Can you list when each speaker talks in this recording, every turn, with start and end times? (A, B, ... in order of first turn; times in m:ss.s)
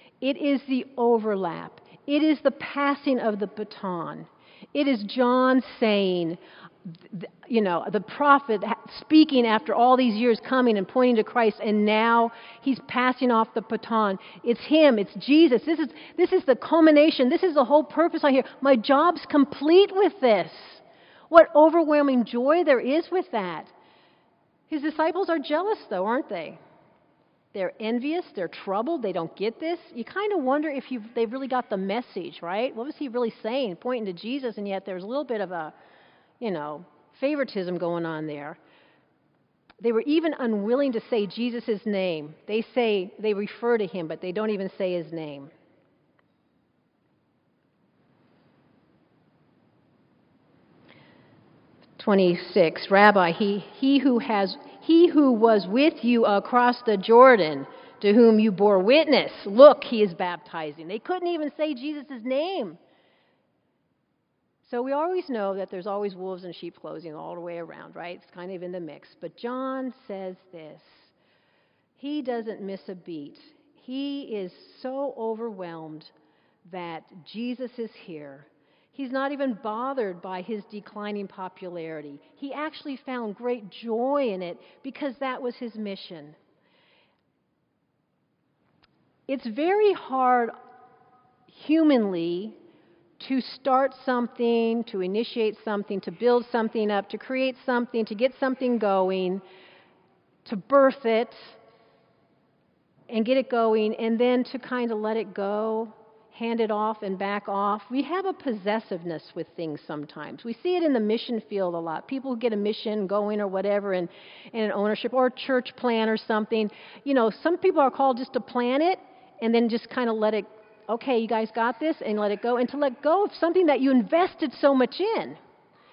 0:00.2-0:23.7 A
0:24.7-0:26.6 A
0:27.5-0:35.7 A
0:36.4-0:38.6 A
0:39.8-0:45.5 A
0:52.0-1:02.8 A
1:04.6-1:11.1 A
1:12.0-1:16.1 A
1:16.7-1:26.4 A
1:29.3-1:30.5 A
1:31.5-1:32.6 A
1:33.2-1:39.4 A
1:40.4-1:41.6 A
1:43.1-2:05.4 A